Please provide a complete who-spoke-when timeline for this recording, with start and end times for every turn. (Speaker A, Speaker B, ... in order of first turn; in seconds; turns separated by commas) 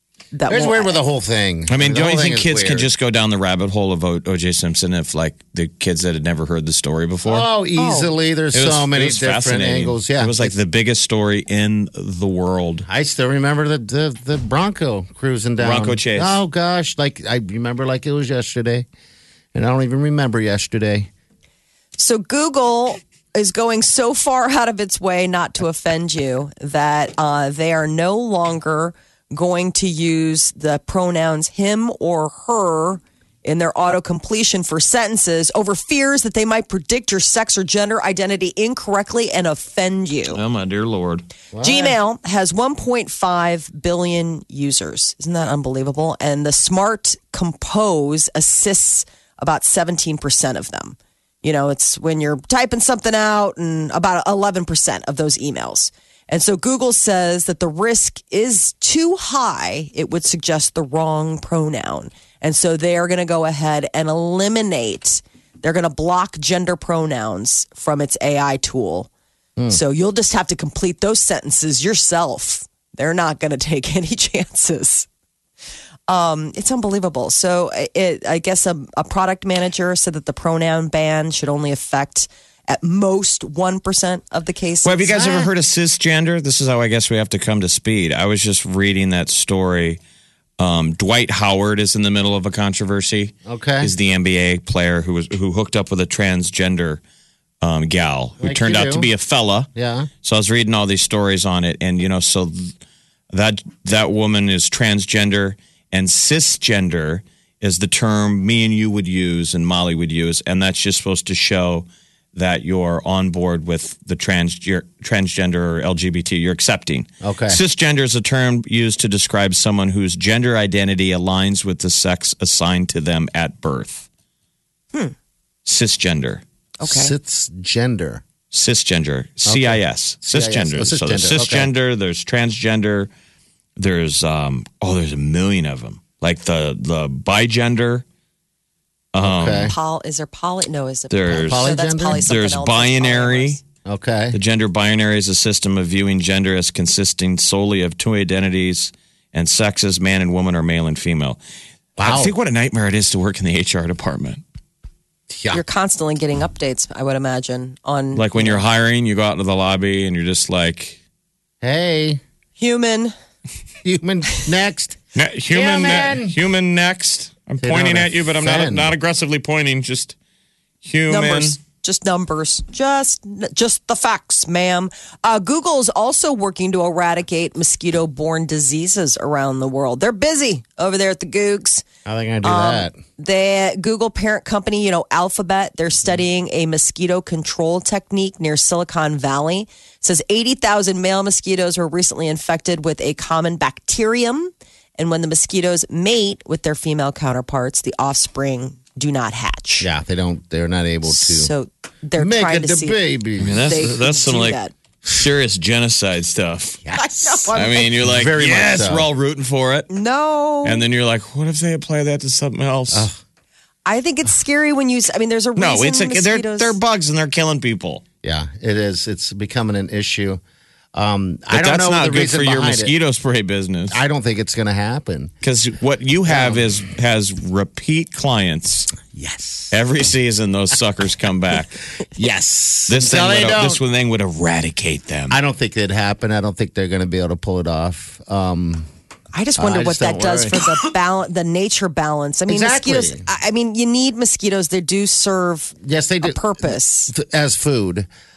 Speaker A: 0.3-1.0, Speaker B: 0.5-2.9, Speaker C: 1.7-7.5, Speaker B: 7.2-10.5, Speaker A: 7.8-8.1, Speaker C: 8.5-12.9, Speaker B: 12.9-18.9, Speaker C: 15.6-16.4, Speaker B: 19.5-21.1, Speaker A: 22.0-40.4, Speaker C: 40.3-41.3, Speaker B: 41.5-42.0, Speaker A: 41.6-69.1, Speaker A: 69.7-75.1, Speaker A: 76.1-85.4, Speaker C: 84.8-90.0, Speaker B: 85.1-85.5, Speaker C: 90.6-97.0, Speaker B: 93.5-93.9, Speaker C: 97.6-99.7, Speaker B: 98.4-99.1, Speaker B: 99.8-100.1, Speaker C: 100.2-102.7, Speaker C: 103.3-124.1, Speaker B: 117.2-117.6, Speaker C: 125.7-126.4, Speaker A: 126.8-127.1, Speaker B: 126.8-128.2, Speaker C: 128.5-133.1, Speaker B: 129.5-131.7, Speaker C: 133.8-138.1, Speaker C: 139.1-139.7, Speaker B: 139.2-139.8, Speaker A: 139.5-143.6, Speaker C: 141.1-143.6, Speaker B: 141.3-142.2, Speaker B: 143.8-144.4, Speaker C: 144.3-151.4, Speaker B: 152.0-152.3, Speaker C: 152.0-154.4, Speaker B: 155.3-155.6, Speaker A: 155.5-158.6, Speaker C: 158.1-161.0, Speaker B: 161.6-162.2, Speaker A: 162.6-163.1, Speaker B: 163.8-165.0, Speaker C: 165.2-170.2, Speaker B: 165.5-166.4, Speaker B: 167.6-168.9, Speaker C: 170.8-171.6, Speaker A: 171.1-181.8, Speaker B: 182.1-183.0, Speaker A: 182.4-199.9, Speaker B: 199.8-201.5, Speaker A: 201.1-203.0, Speaker B: 202.2-203.9, Speaker C: 203.4-206.8, Speaker A: 203.6-204.7, Speaker B: 206.8-209.1, Speaker A: 207.0-207.8, Speaker C: 207.5-209.9, Speaker A: 209.9-210.8, Speaker C: 210.6-213.1, Speaker B: 212.9-213.2, Speaker A: 213.9-216.8, Speaker C: 215.6-218.0, Speaker B: 218.2-220.4, Speaker B: 220.9-222.9, Speaker C: 221.5-224.0, Speaker B: 223.9-225.3, Speaker C: 225.4-228.9, Speaker B: 226.3-226.6, Speaker B: 229.1-229.7, Speaker C: 229.7-231.8, Speaker B: 232.2-233.8, Speaker C: 232.9-235.4, Speaker B: 235.3-238.9, Speaker A: 239.3-247.1, Speaker B: 239.6-240.7, Speaker B: 242.5-243.2, Speaker B: 245.8-248.1